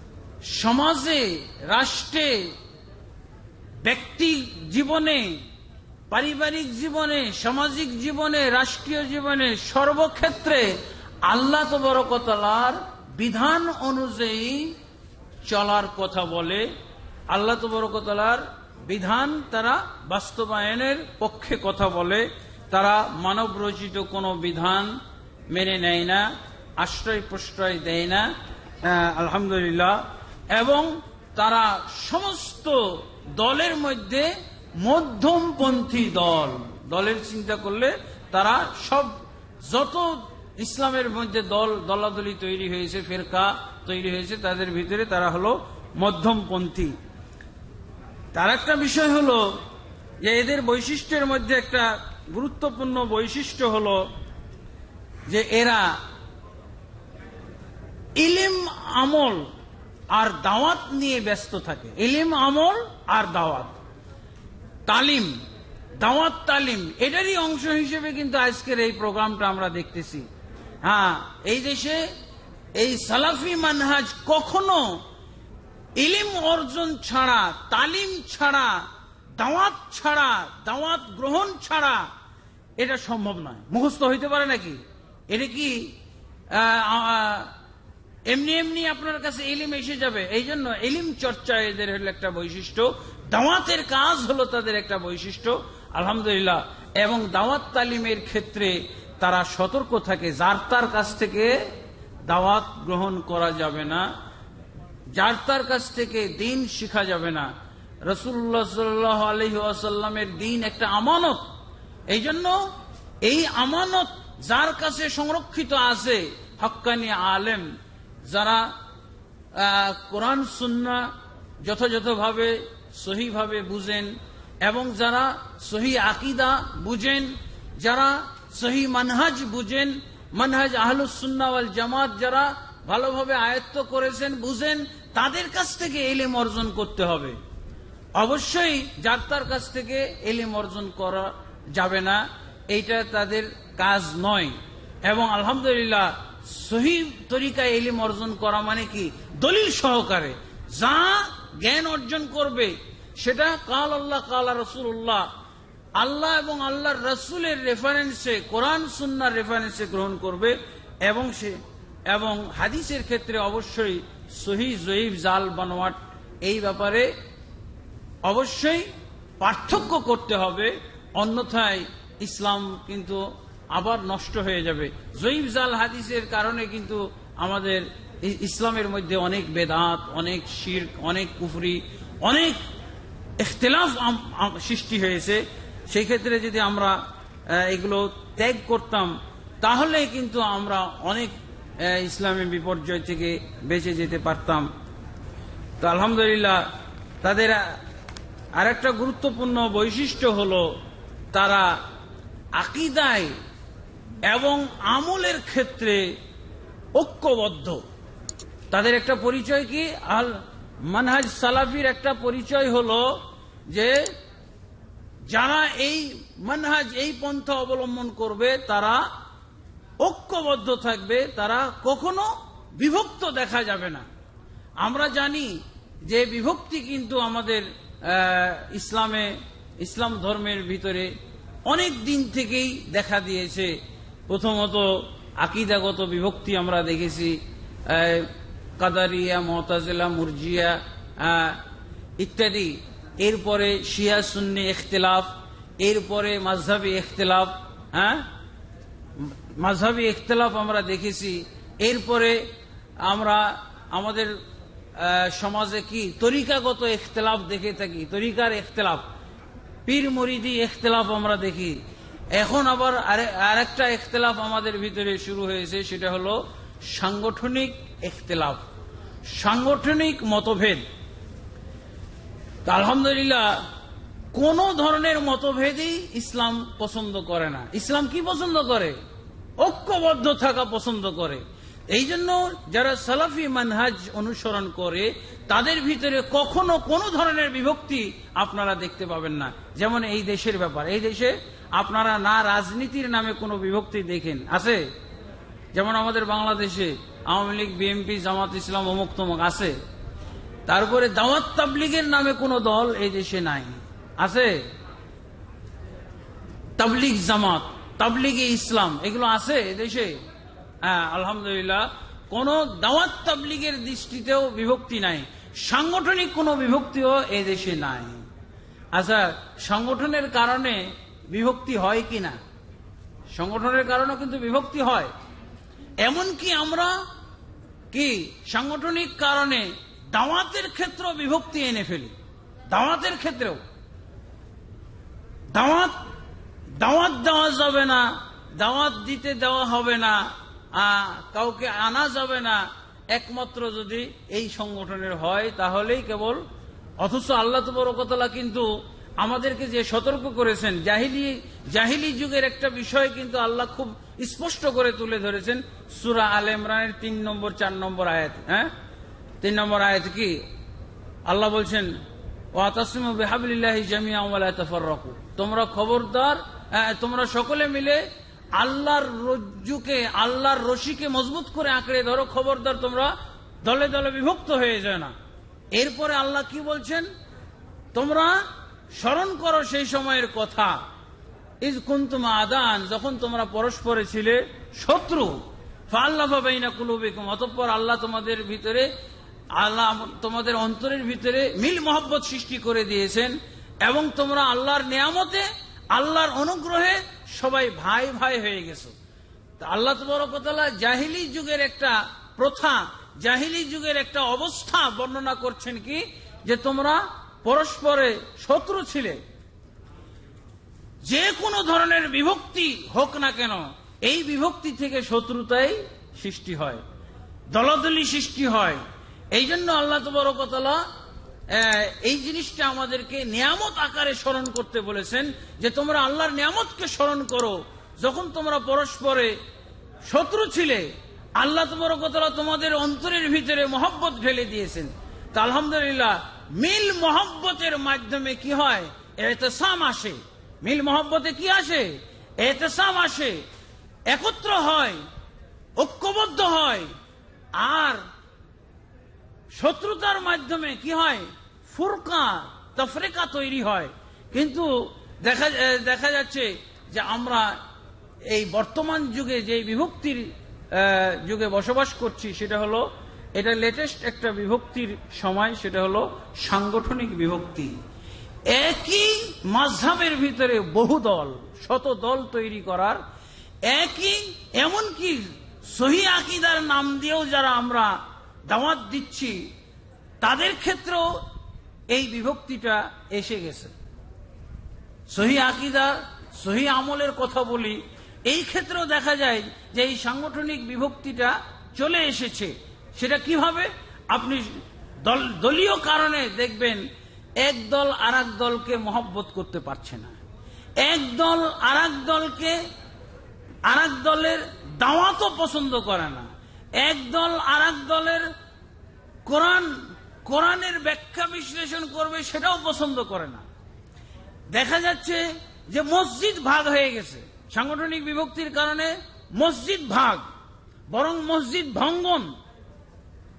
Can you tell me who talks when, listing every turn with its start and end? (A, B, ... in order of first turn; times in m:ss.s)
0:00.4-0:02.5 A
0:03.8-0:05.4 A
0:06.1-0:14.8 A
0:15.4-0:16.6 A
0:17.3-0:25.0 A
0:25.5-0:26.3 A
0:26.8-0:28.3 A
0:28.8-0:47.0 A
0:48.3-0:49.6 A
0:50.2-0:54.0 A
0:55.3-0:56.0 A
0:58.2-0:59.4 A
1:00.1-1:03.8 A
1:04.9-1:05.3 A
1:06.0-1:10.3 A
1:10.8-1:12.0 A
1:12.8-1:15.0 A
1:16.0-1:18.8 A
1:19.4-1:22.1 A
1:22.8-1:25.9 A
1:26.5-1:27.5 A
1:28.3-1:41.6 A
1:42.3-1:44.1 A
1:45.1-1:47.5 A
1:48.0-1:51.5 A
1:52.1-1:52.7 A
1:53.2-1:57.7 A
1:58.3-1:58.7 A
1:59.5-2:17.4 A
2:18.1-2:35.3 A
2:36.0-2:47.1 A
2:48.2-2:48.9 A
2:49.4-3:02.6 A
3:03.4-3:14.7 A
3:15.8-3:16.6 A
3:17.2-3:17.7 A
3:18.6-3:20.7 A
3:21.3-3:21.8 A
3:22.5-3:23.3 A
3:24.2-3:26.1 A
3:26.9-3:27.8 A
3:28.7-3:34.0 A
3:35.3-3:39.1 A
3:40.0-3:44.0 A
3:44.8-3:51.1 A
3:51.6-3:53.8 A
3:54.3-4:01.6 A
4:02.2-4:08.2 A
4:09.2-4:12.5 A
4:13.0-4:14.4 A
4:15.0-4:19.0 A
4:19.8-4:21.8 A
4:22.3-4:28.6 A
4:29.3-4:30.8 A
4:32.6-4:33.6 A
4:34.3-4:38.9 A
4:39.6-4:54.8 A
4:55.7-4:59.7 A
5:00.7-5:04.6 A
5:06.8-5:10.2 A
5:10.8-5:18.2 A
5:18.9-5:22.4 A
5:23.3-5:25.1 A
5:26.0-5:26.9 A
5:27.9-5:32.1 A
5:32.7-5:33.6 A
5:35.5-5:36.0 A
5:36.7-5:46.4 A
5:47.0-5:58.7 A
5:59.4-6:00.4 A
6:01.2-6:02.0 A
6:02.5-6:08.0 A
6:08.5-6:15.1 A
6:15.7-6:17.1 A
6:17.9-6:20.8 A
6:21.6-6:28.9 A
6:29.5-6:38.9 A
6:39.6-6:49.2 A
6:51.0-6:56.8 A
6:57.5-6:58.8 A
6:59.3-7:00.8 A
7:01.5-7:09.3 A
7:10.1-7:23.4 A
7:24.1-7:25.0 A
7:25.8-7:26.9 A
7:27.5-7:28.0 A
7:29.5-7:37.6 A
7:38.3-7:47.7 A
7:48.5-7:53.0 A
7:53.6-7:59.5 A
8:00.2-8:01.2 A
8:01.9-8:03.7 A
8:05.1-8:16.8 A
8:17.4-8:20.2 A
8:20.8-8:22.6 A
8:23.6-8:28.3 A
8:29.2-8:33.4 A
8:34.5-8:40.2 A
8:40.9-8:42.3 A